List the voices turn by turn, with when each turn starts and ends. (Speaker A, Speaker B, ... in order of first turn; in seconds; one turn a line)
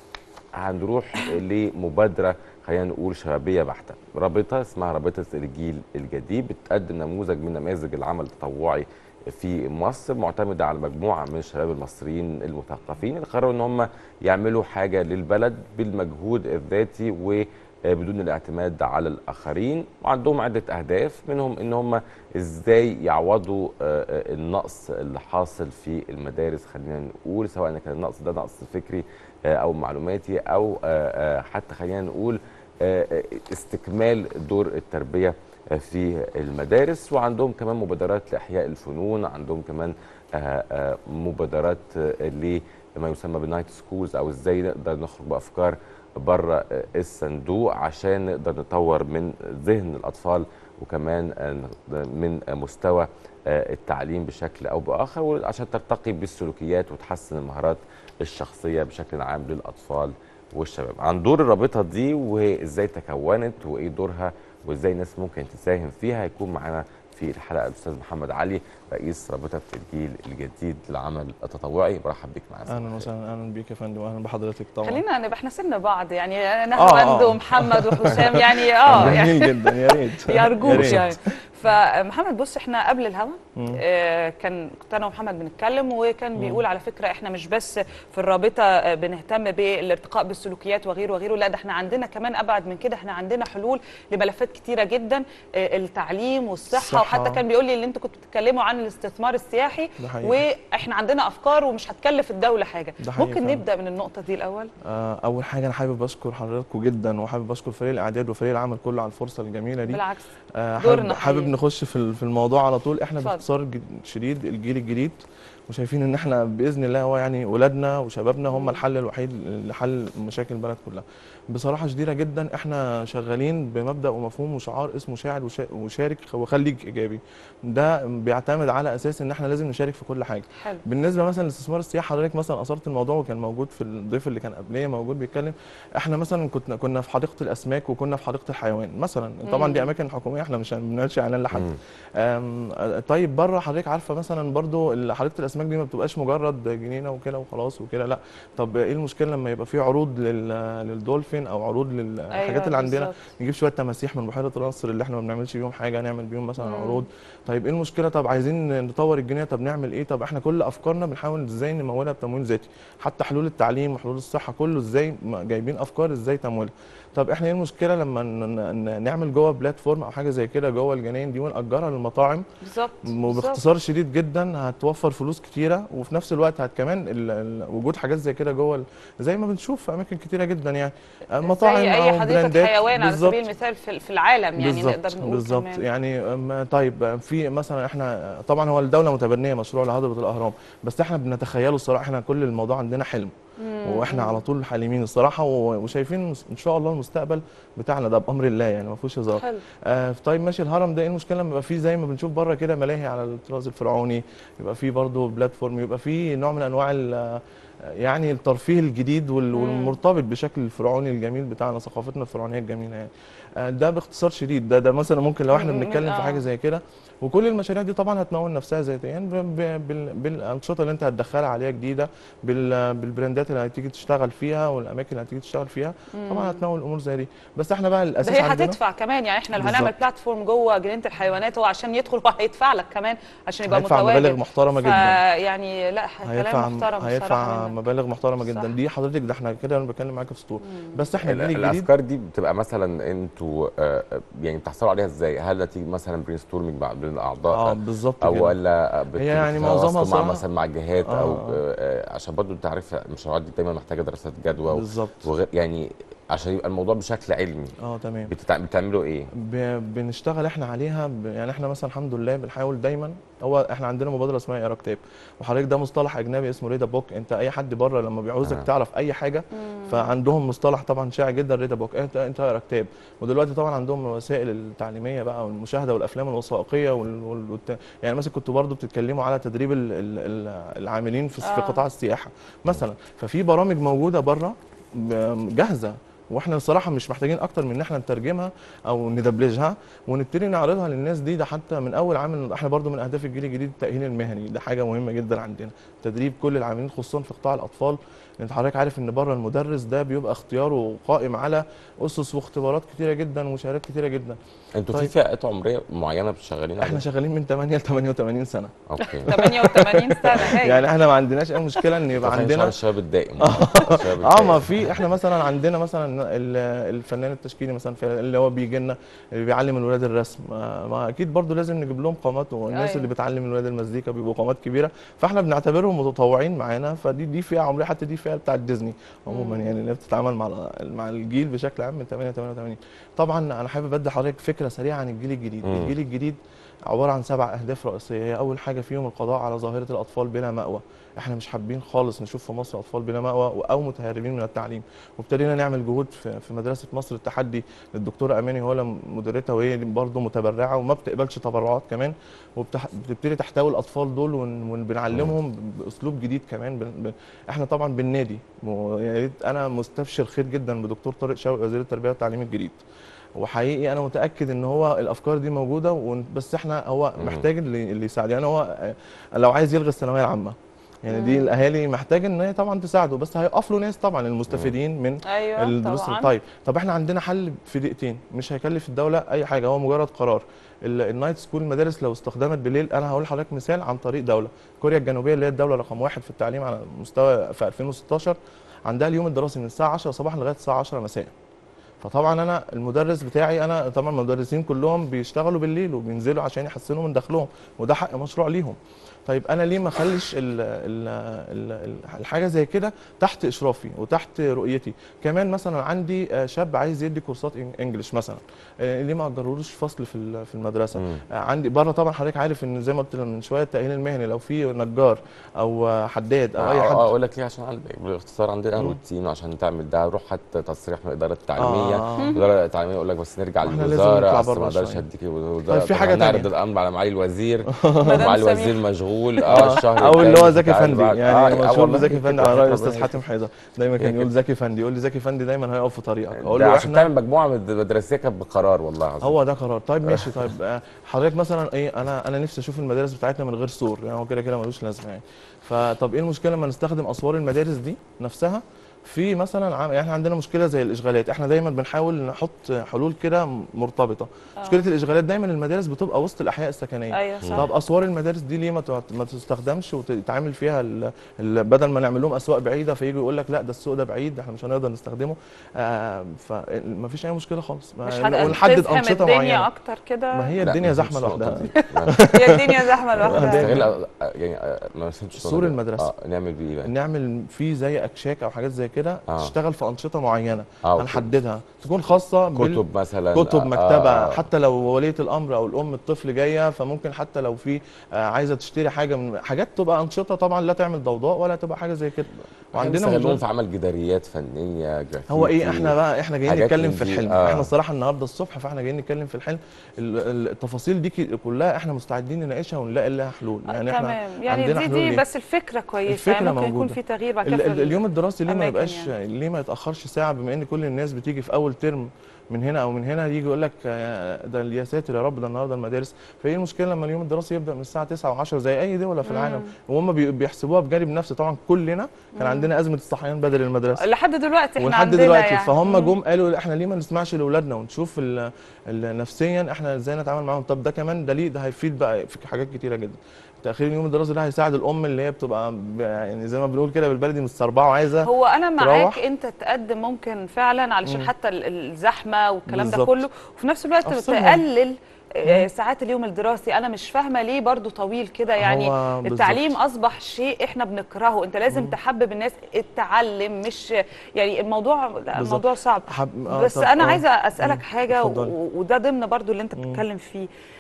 Speaker A: 0.6-73.1
Speaker B: 72.7-75.0
Speaker C: 74.8-104.7
Speaker B: 76.7-81.2
Speaker A: 78.9-79.3
Speaker A: 80.7-81.0
Speaker B: 86.3-86.6
Speaker B: 96.7-97.4
Speaker B: 100.0-100.4
Speaker B: 103.0-103.6
Speaker B: 104.8-110.0
Speaker C: 109.9-110.3
Speaker B: 110.6-172.4
Speaker C: 110.8-111.5
Speaker C: 118.5-118.8
Speaker C: 139.4-139.9
Speaker A: 141.5-141.8
Speaker C: 152.3-153.1
Speaker C: 156.6-157.1
Speaker C: 172.6-173.6
Speaker B: 173.0-183.4
Speaker C: 181.4-185.8
Speaker B: 184.6-193.3
Speaker C: 193.6-194.4
Speaker B: 193.8-207.4
Speaker C: 199.3-199.6
Speaker B: 208.0-228.8
Speaker C: 209.5-210.0
Speaker C: 215.5-216.4
Speaker C: 226.1-226.6
Speaker C: 228.2-237.7
Speaker B: 229.5-229.9
Speaker B: 233.7-235.2
Speaker B: 236.2-241.9
Speaker C: 238.4-238.7
Speaker C: 240.6-241.1
Speaker A: 241.2-257.7
Speaker B: 247.5-248.5
Speaker B: 249.2-250.4
Speaker B: 251.0-251.6
Speaker B: 254.7-255.3
Speaker B: 257.8-258.3
Speaker A: 258.3-259.3
Speaker B: 259.4-304.4
Speaker C: 269.5-270.1
Speaker C: 281.4-281.8
Speaker A: 304.8-307.0
Speaker B: 306.8-308.7
Speaker A: 308.9-309.3
Speaker C: 309.2-310.9
Speaker B: 309.2-312.8
Speaker A: 312.1-315.0
Speaker B: 313.4-336.4
Speaker C: 322.7-323.1
Speaker C: 329.3-329.7
Speaker A: 335.6-335.9
Speaker B: 336.9-362.8
Speaker B: 363.4-388.4
Speaker A: 367.2-367.4
Speaker C: 371.1-371.5
Speaker A: 374.5-374.7
Speaker C: 375.2-376.3
Speaker B: 388.9-391.3
Speaker B: 392.0-417.1
Speaker A: 410.9-411.2
Speaker A: 416.6-433.2
Speaker B: 421.6-422.4
Speaker B: 423.6-425.0
Speaker B: 425.7-426.5
Speaker B: 427.7-428.3
Speaker C: 428.0-428.8
Speaker C: 429.4-429.9
Speaker B: 429.5-437.1
Speaker A: 434.0-434.3
Speaker A: 436.3-439.4
Speaker B: 439.2-469.7
Speaker A: 440.1-440.4
Speaker C: 454.6-454.8
Speaker C: 457.1-457.7
Speaker C: 468.1-470.5
Speaker B: 470.3-473.9
Speaker A: 470.6-472.2
Speaker C: 472.3-473.9
Speaker A: 473.1-476.9
Speaker B: 475.4-476.1
Speaker B: 476.8-482.8
Speaker A: 480.8-481.3
Speaker A: 482.5-484.4
Speaker B: 483.3-493.4
Speaker A: 492.7-497.7
Speaker B: 495.3-505.2
Speaker C: 503.7-509.1
Speaker B: 506.1-524.0
Speaker C: 519.2-519.7
Speaker C: 522.3-522.7
Speaker C: 524.0-526.1
Speaker B: 524.8-539.2
Speaker C: 538.2-560.5
Speaker B: 541.0-541.3
Speaker B: 542.7-543.2
Speaker B: 544.0-544.6
Speaker B: 548.5-549.8
Speaker B: 551.7-552.0
Speaker B: 555.3-558.5
Speaker B: 559.8-560.0